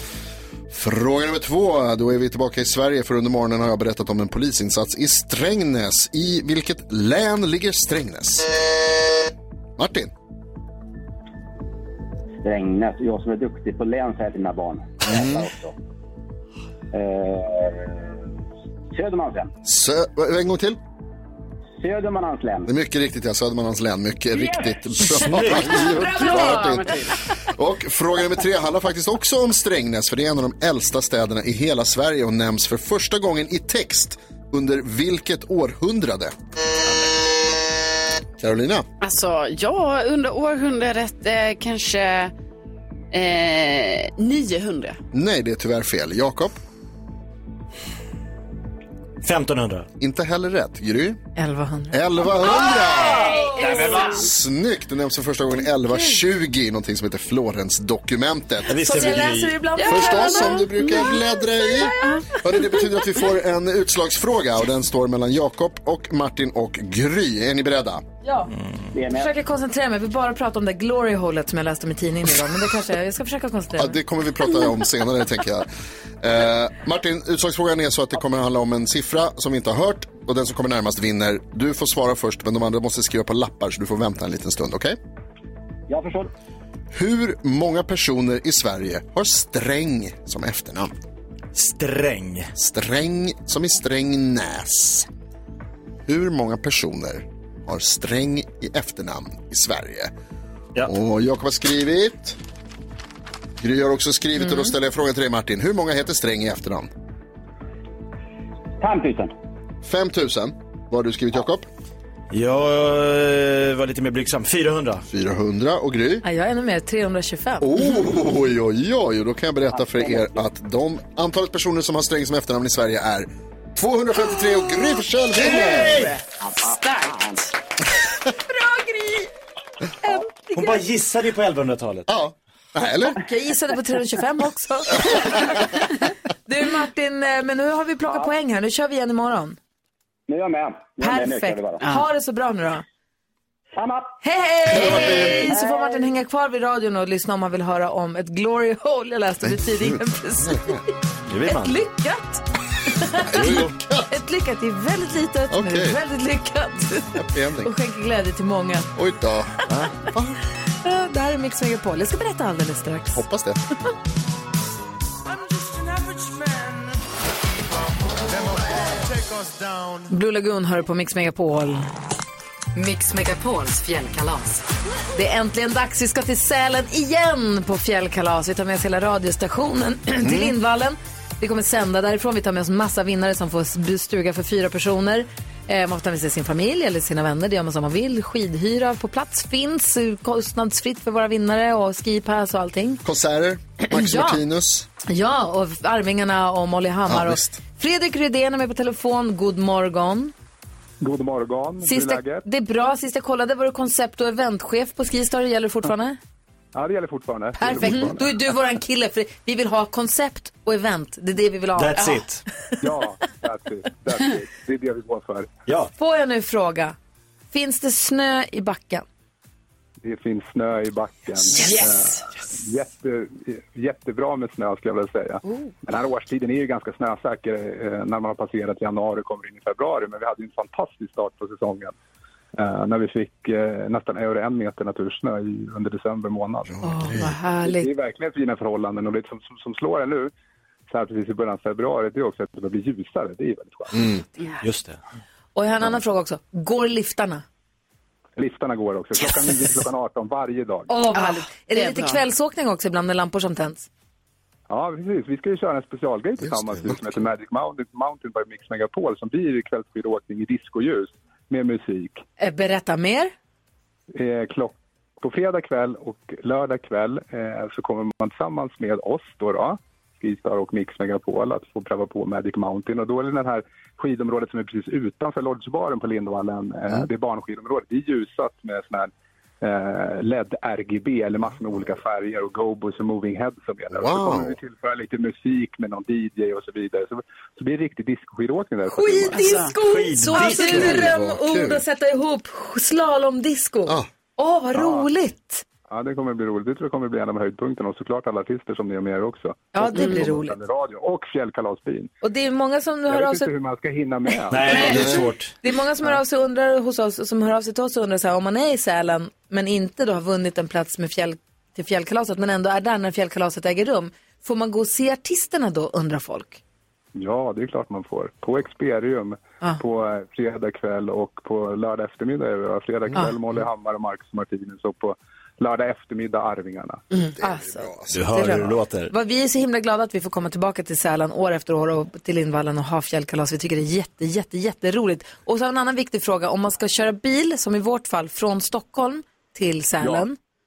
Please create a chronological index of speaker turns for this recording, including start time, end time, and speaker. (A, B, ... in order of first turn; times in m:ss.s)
0:00.7-0:08.5 A
0:09.8-0:10.1 A
0:12.4-0:15.7 B
0:15.0-0:15.5 A
0:16.9-0:18.0 B
0:19.0-0:19.5 B
0:19.6-0:20.8 A
0:21.8-0:22.7 B
0:22.7-0:36.4 A
0:24.9-0:25.9 C
0:25.5-0:27.2 D
0:25.8-0:26.8 E
0:38.4-0:38.9 A
0:39.0-0:42.3 D
0:43.1-0:45.0 D
0:45.1-0:46.6 A
0:49.2-0:49.9 C
0:50.0-0:51.2 A
0:51.4-0:52.0 E
0:51.9-0:58.8 A
0:52.4-0:54.3 D
0:58.7-0:59.6 C
0:58.8-1:01.2 E
0:59.8-1:08.0 A
1:08.2-1:08.5 E
1:09.0-1:09.3 B
1:09.1-1:14.0 E
1:13.8-1:15.7 A
1:16.2-1:25.0 A
1:25.9-1:26.3 B
1:26.9-1:30.9 A
1:31.5-1:32.5 C
1:32.6-1:35.1 A
1:36.1-1:40.1 A
1:40.8-1:42.4 A
1:43.6-1:46.9 A
1:48.8-1:49.3 B
1:49.8-1:51.7 A
1:52.3-1:55.1 C
1:55.1-1:56.2 A
1:56.2-1:57.7 E
1:57.6-2:06.1 A
2:05.4-2:06.2 C
2:05.5-2:07.5 D
2:08.5-2:09.3 E
2:10.0-2:10.8 E
2:10.5-2:12.1 C
2:12.1-2:13.2 A
2:13.1-2:19.6 E
2:20.3-2:21.8 B
2:21.0-2:22.8 E
2:21.8-2:22.1 D
2:23.8-2:24.1 B
2:24.2-2:30.8 E
2:24.7-2:25.6 C
2:24.8-2:25.4 A
2:25.5-2:26.0 B
2:29.4-2:30.8 A
2:31.3-2:31.8 C
2:31.4-2:38.9 E
2:33.2-2:34.2 A
2:35.5-2:36.0 A
2:37.2-2:37.7 A
2:39.0-2:40.4 A
2:40.8-2:43.2 E
2:43.1-2:43.6 A
2:50.1-2:51.9 E
2:52.8-2:54.6 E
2:55.1-3:13.0 E
3:00.2-3:00.5 A
3:13.0-3:14.9 A
3:13.9-3:14.4 E
3:15.1-3:20.3 E
3:17.1-3:17.6 A
3:21.0-3:22.4 F
3:21.8-3:26.2 E
3:26.7-3:28.3 F
3:27.6-3:32.0 E
3:31.8-3:32.4 C
3:32.0-3:32.2 D
3:32.8-3:35.5 F
3:35.7-3:35.9 C
3:36.0-3:37.0 E
3:37.5-3:39.0 E
3:40.0-3:51.9 F
3:41.6-3:42.2 D
3:45.4-3:45.7 E
3:52.6-3:56.8 F
3:56.7-3:57.4 A
3:56.8-3:57.9 E
3:57.6-4:00.3 F
4:00.9-4:04.0 F
4:03.9-4:04.2 A
4:04.6-4:05.0 C
4:05.6-4:07.4 E
4:08.4-4:10.9 F
4:10.9-4:13.9 E
4:11.2-4:12.2 D
4:14.7-4:22.2 F
4:16.4-4:17.2 A
4:22.4-4:23.3 E
4:24.1-4:49.6 F
4:43.9-4:44.6 A
4:48.9-4:55.6 E
4:49.3-4:49.7 D
4:49.8-4:51.1 C
4:50.6-4:51.8 A
4:54.7-4:55.1 F
4:55.9-5:02.1 F
4:59.7-5:00.6 E
5:02.2-5:03.5 E
5:03.1-5:05.0 F
5:04.5-5:05.5 C
5:04.7-5:05.1 D
5:04.9-5:05.2 A
5:05.6-5:16.6 E
5:17.2-5:27.0 F
5:27.2-5:40.4 E
5:27.4-5:28.3 A
5:28.1-5:29.1 C